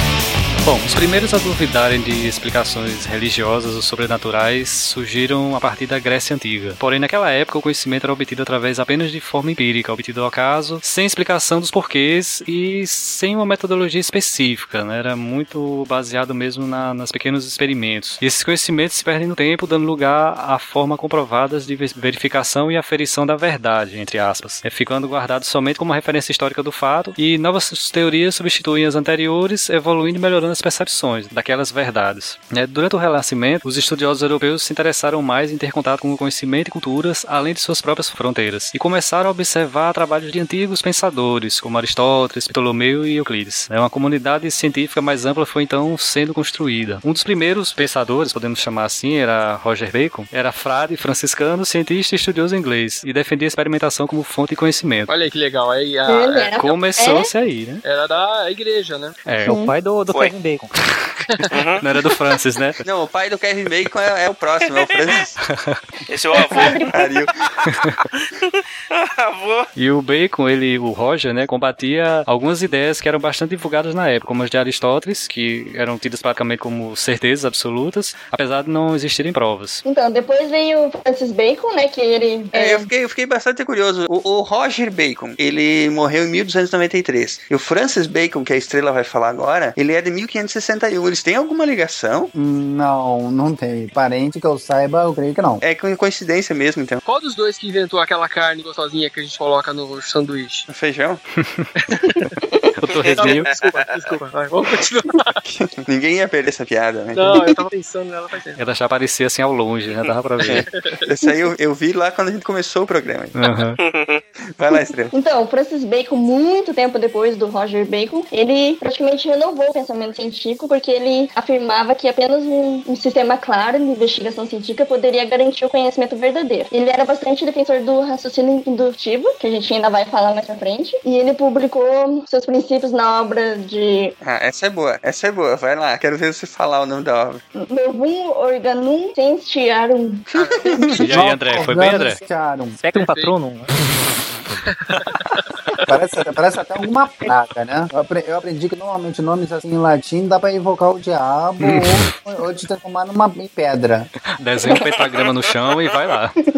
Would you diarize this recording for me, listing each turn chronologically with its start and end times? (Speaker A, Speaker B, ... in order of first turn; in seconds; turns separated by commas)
Speaker A: 0.6-55.1, Speaker B: 55.1-56.6, Speaker C: 56.0-57.3, Speaker A: 56.6-57.8, Speaker B: 57.8-59.2, Speaker A: 59.2-59.6, Speaker C: 59.5-59.7, Speaker D: 59.5-60.7, Speaker A: 60.8-62.8, Speaker B: 61.3-61.5, Speaker E: 61.5-61.8, Speaker F: 62.8-65.4, Speaker E: 64.6-65.2, Speaker A: 65.4-65.8, Speaker E: 66.1-66.9, Speaker C: 66.4-66.9, Speaker F: 66.9-67.8, Speaker E: 67.5-69.7, Speaker A: 69.8-79.8, Speaker C: 79.8-82.9, Speaker F: 82.5-92.3, Speaker G: 92.3-95.6, Speaker F: 95.6-97.0, Speaker B: 97.0-100.7, Speaker F: 100.7-101.2, Speaker A: 101.4-101.7, Speaker B: 101.8-102.3, Speaker A: 102.8-103.5, Speaker B: 103.0-105.4, Speaker E: 103.0-103.5, Speaker F: 105.5-107.6, Speaker B: 107.1-108.6, Speaker A: 108.5-110.7, Speaker F: 110.4-113.3, Speaker B: 110.6-111.0, Speaker A: 113.3-113.8, Speaker E: 113.8-114.2, Speaker F: 114.6-115.1, Speaker C: 115.1-134.1, Speaker F: 134.2-137.4, Speaker C: 137.5-140.9, Speaker F: 140.3-141.1, Speaker B: 140.4-141.3, Speaker A: 140.9-142.2, Speaker G: 141.1-142.8, Speaker D: 142.8-143.8, Speaker B: 142.9-143.3, Speaker B: 144.7-145.8, Speaker G: 145.9-154.1, Speaker A: 151.6-152.1, Speaker A: 154.3-156.3, Speaker E: 155.0-156.1